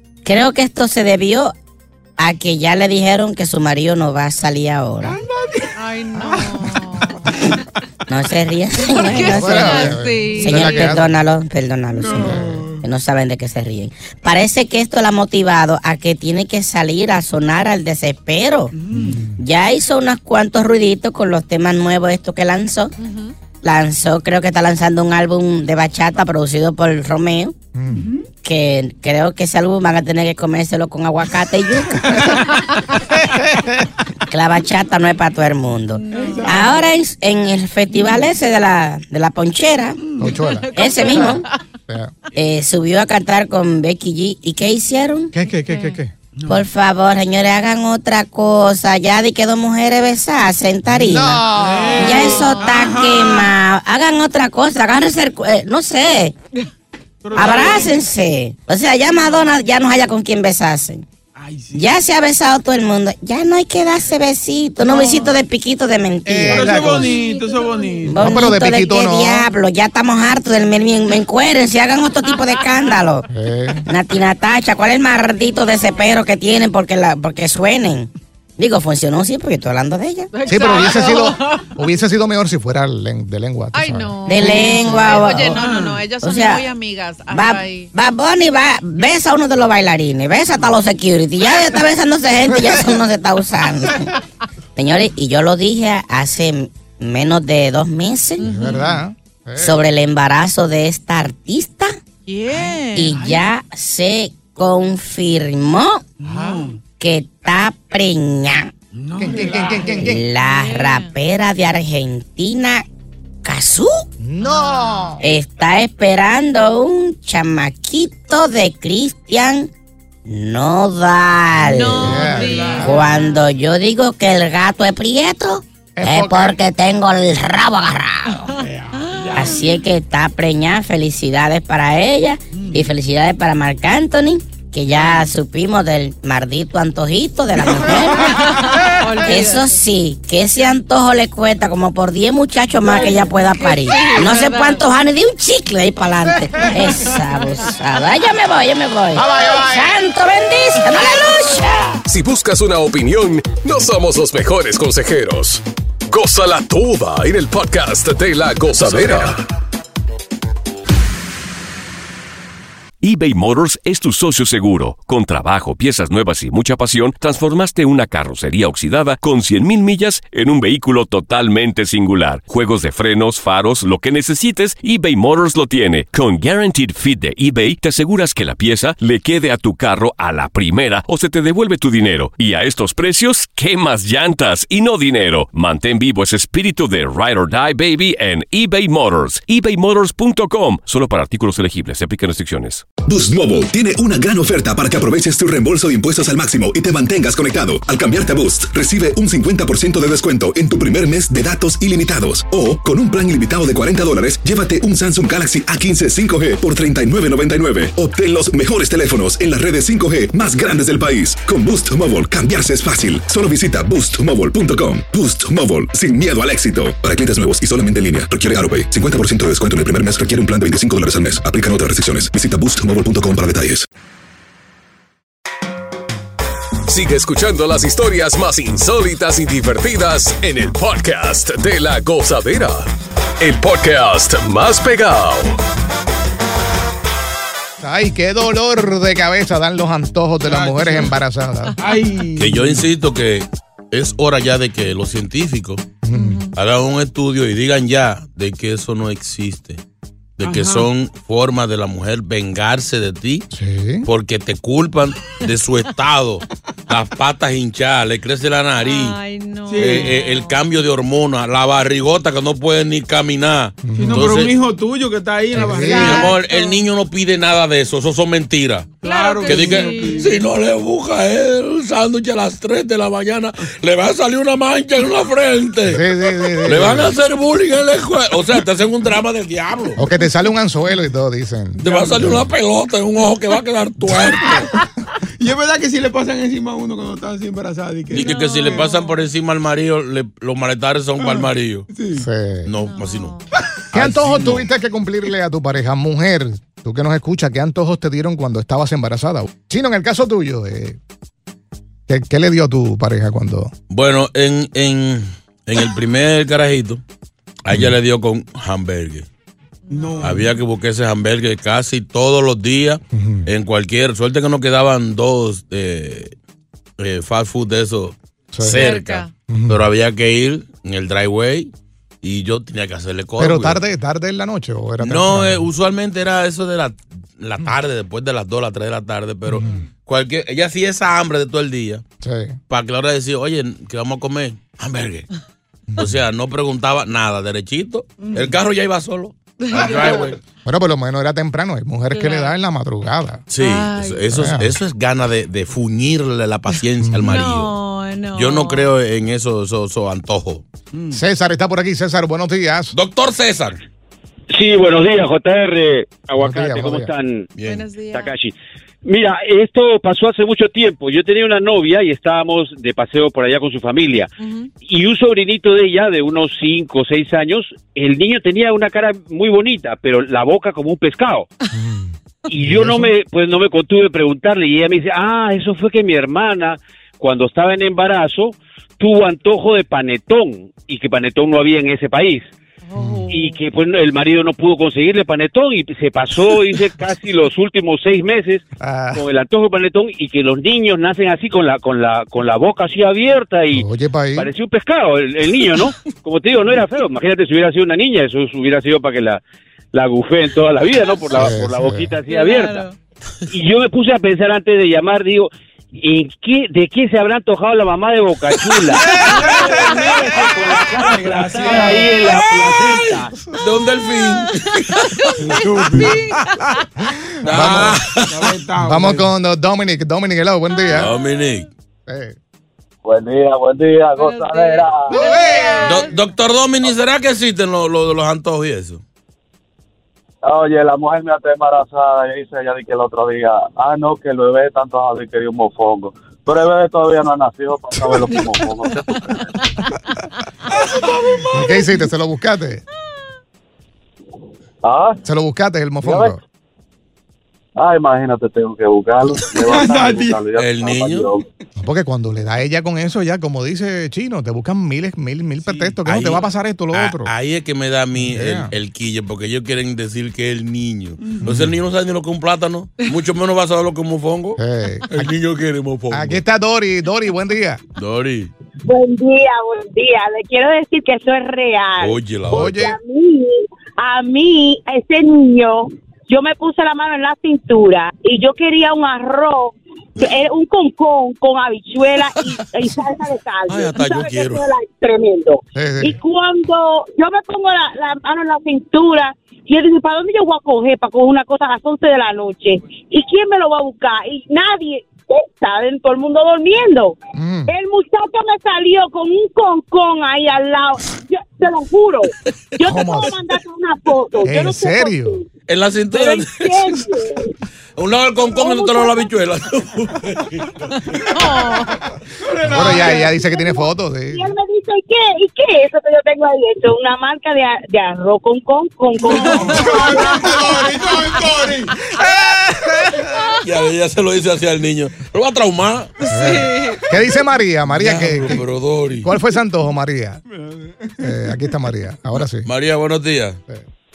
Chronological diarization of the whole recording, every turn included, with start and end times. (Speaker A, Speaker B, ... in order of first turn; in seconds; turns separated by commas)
Speaker A: 0.2-1.5, Speaker A: 2.2-5.2, Speaker B: 5.0-5.7, Speaker C: 5.8-7.4, Speaker A: 8.1-18.7, Speaker C: 8.8-10.9, Speaker D: 9.2-11.2, Speaker B: 11.9-12.8, Speaker D: 12.2-12.6, Speaker B: 18.8-19.2, Speaker D: 18.9-19.4, Speaker A: 19.4-22.9, Speaker C: 23.0-23.3, Speaker A: 23.6-27.6, Speaker D: 27.8-28.1, Speaker B: 27.9-28.2, Speaker A: 28.4-32.4, Speaker A: 34.3-40.0, Speaker C: 36.0-36.7, Speaker B: 36.1-36.8, Speaker D: 40.2-40.7, Speaker C: 40.4-41.6, Speaker A: 40.8-41.5, Speaker D: 41.9-42.1, Speaker A: 42.4-45.3, Speaker D: 45.3-46.1, Speaker C: 45.6-46.0, Speaker B: 46.4-46.7, Speaker A: 46.5-56.4, Speaker D: 50.9-52.4, Speaker B: 51.5-53.5, Speaker C: 52.4-52.8, Speaker B: 57.2-58.0, Speaker A: 57.4-61.0, Speaker B: 61.4-61.9, Speaker A: 61.7-66.8, Speaker B: 64.9-65.3, Speaker D: 66.3-67.2, Speaker B: 66.4-68.5, Speaker C: 66.8-68.0, Speaker A: 68.0-73.3, Speaker D: 68.2-69.5, Speaker D: 73.3-73.9, Speaker A: 73.9-80.3, Speaker C: 80.3-81.7, Speaker D: 80.5-84.9, Speaker C: 83.7-87.9, Speaker A: 84.3-85.6, Speaker B: 85.5-86.0, Speaker A: 86.2-86.7, Speaker A: 87.3-94.1, Speaker D: 92.5-92.9, Speaker A: 94.8-98.4, Speaker C: 98.4-99.0, Speaker D: 98.4-99.8, Speaker A: 99.6-102.0, Speaker C: 102.3-103.2, Speaker A: 102.9-106.0, Speaker B: 103.2-103.4, Speaker B: 106.2-106.8, Speaker C: 106.3-106.7, Speaker A: 107.0-108.7, Speaker B: 108.9-110.1, Speaker D: 109.2-110.2, Speaker A: 110.0-112.8, Speaker C: 110.3-111.1, Speaker A: 113.4-114.1, Speaker D: 114.2-115.2, Speaker C: 114.4-115.0, Speaker A: 115.2-119.7, Speaker A: 120.2-128.5, Speaker C: 121.6-123.4, Speaker D: 122.0-122.8, Speaker B: 122.2-123.0, Speaker D: 126.0-126.6, Speaker B: 128.6-129.6, Speaker A: 129.3-138.6, Speaker B: 132.5-132.9, Speaker C: 138.3-139.7, Speaker A: 139.2-152.0, Speaker C: 142.9-144.9, Speaker D: 149.1-149.9, Speaker E: 152.1-159.4, Speaker F: 163.0-192.8, Speaker G: 193.1-223.9, Speaker E: 226.9-235.6, Speaker D: 237.8-241.8, Speaker B: 240.4-241.2, Speaker B: 241.8-242.9, Speaker H: 242.4-245.9, Speaker D: 246.0-246.4, Speaker C: 246.1-246.5, Speaker H: 246.6-249.8, Speaker H: 250.4-253.5, Speaker B: 250.4-250.9, Speaker D: 253.5-254.1, Speaker H: 254.0-259.2, Speaker C: 258.8-260.6, Speaker B: 259.7-260.1, Speaker H: 259.7-264.6, Speaker D: 263.9-264.4, Speaker B: 263.9-266.4, Speaker D: 265.5-266.2, Speaker C: 265.7-266.8, Speaker H: 265.9-268.9, Speaker C: 269.0-270.4, Speaker B: 269.0-270.4, Speaker H: 269.5-276.1, Speaker D: 275.9-277.1, Speaker H: 276.6-280.0, Speaker D: 280.0-282.5, Speaker H: 281.8-284.7, Speaker B: 281.8-282.3, Speaker B: 285.4-288.9, Speaker H: 288.1-291.9, Speaker C: 288.1-289.2, Speaker B: 291.2-292.3, Speaker D: 292.1-292.7, Speaker H: 292.7-293.4, Speaker C: 292.8-293.4, Speaker D: 293.9-301.0, Speaker H: 294.0-294.6, Speaker B: 294.1-294.6, Speaker D: 302.1-303.7, Speaker H: 303.9-307.0, Speaker H: 307.6-309.3, Speaker D: 307.7-308.0, Speaker C: 309.9-310.4, Speaker B: 309.9-310.5, Speaker H: 310.2-316.3, Speaker D: 313.1-313.5, Speaker H: 317.0-321.7, Speaker D: 318.5-318.9, Speaker C: 318.7-319.3, Speaker D: 319.5-319.8, Speaker H: 322.2-323.8, Speaker D: 323.4-325.7, Speaker H: 325.0-332.0, Speaker D: 329.5-329.8, Speaker D: 332.2-332.6, Speaker H: 332.7-335.3, Speaker D: 335.9-336.2, Speaker H: 336.0-340.4, Speaker B: 338.2-338.6, Speaker C: 339.6-340.3, Speaker B: 339.9-340.2, Speaker D: 340.6-343.4, Speaker C: 342.1-342.6, Speaker H: 343.5-347.8, Speaker C: 343.6-344.3, Speaker D: 344.3-344.8, Speaker C: 346.7-348.9, Speaker D: 347.1-347.3, Speaker H: 348.3-350.6, Speaker B: 350.9-351.2, Speaker D: 351.1-352.9, Speaker H: 352.9-353.8, Speaker I: 354.5-357.5, Speaker D: 356.4-357.1, Speaker H: 357.6-357.9, Speaker C: 357.6-358.3, Speaker I: 358.1-364.3, Speaker C: 364.4-364.7, Speaker I: 364.8-371.5, Speaker D: 371.8-373.1, Speaker I: 372.5-382.5, Speaker C: 382.8-383.6, Speaker D: 383.0-383.3, Speaker I: 383.3-399.4, Speaker D: 388.8-389.2, Speaker D: 393.7-394.5, Speaker I: 399.9-402.8, Speaker D: 401.3-402.1, Speaker C: 402.3-402.9, Speaker I: 403.5-413.3, Speaker B: 408.9-413.2, Speaker H: 413.6-415.2, Speaker C: 414.2-416.9, Speaker B: 415.4-416.2, Speaker H: 417.4-418.4, Speaker D: 417.5-418.1, Speaker B: 418.3-419.3, Speaker D: 418.8-421.1, Speaker C: 420.8-421.1, Speaker H: 420.9-421.7, Speaker D: 422.1-422.4, Speaker J: 423.1-425.2, Speaker C: 424.2-426.2, Speaker D: 425.2-425.8, Speaker B: 425.2-425.7, Speaker H: 425.8-429.0, Speaker J: 430.5-439.4, Speaker B: 440.9-441.9, Speaker D: 441.5-442.8, Speaker J: 444.8-445.2, Speaker D: 445.2-446.4, Speaker J: 446.0-446.4, Speaker J: 447.8-451.4, Speaker B: 449.6-450.4, Speaker H: 450.6-451.3, Speaker D: 451.8-457.3, Speaker B: 455.6-456.0, Speaker H: 456.1-466.4, Speaker D: 458.2-458.7, Speaker B: 461.2-461.5, Speaker D: 461.4-461.7, Speaker D: 464.6-465.3, Speaker D: 466.1-467.8, Speaker H: 468.0-468.5, Speaker K: 468.8-505.5, Speaker H: 472.0-472.9, Speaker D: 472.5-472.9, Speaker H: 483.7-484.7, Speaker D: 485.8-486.2, Speaker D: 497.4-497.7, Speaker D: 502.8-503.4, Speaker D: 504.4-505.4, Speaker H: 505.7-507.1, Speaker K: 506.1-507.5, Speaker H: 508.0-510.8, Speaker K: 508.5-509.3, Speaker C: 511.2-512.0, Speaker B: 512.4-513.4, Speaker D: 512.6-514.5, Speaker K: 513.4-520.0, Speaker B: 519.2-521.9, Speaker C: 519.3-520.5, Speaker H: 523.6-526.1, Speaker C: 526.2-527.0, Speaker D: 526.3-528.6, Speaker H: 527.9-529.3, Speaker D: 529.2-530.4, Speaker B: 530.5-531.3, Speaker D: 531.2-532.7, Speaker H: 532.6-533.6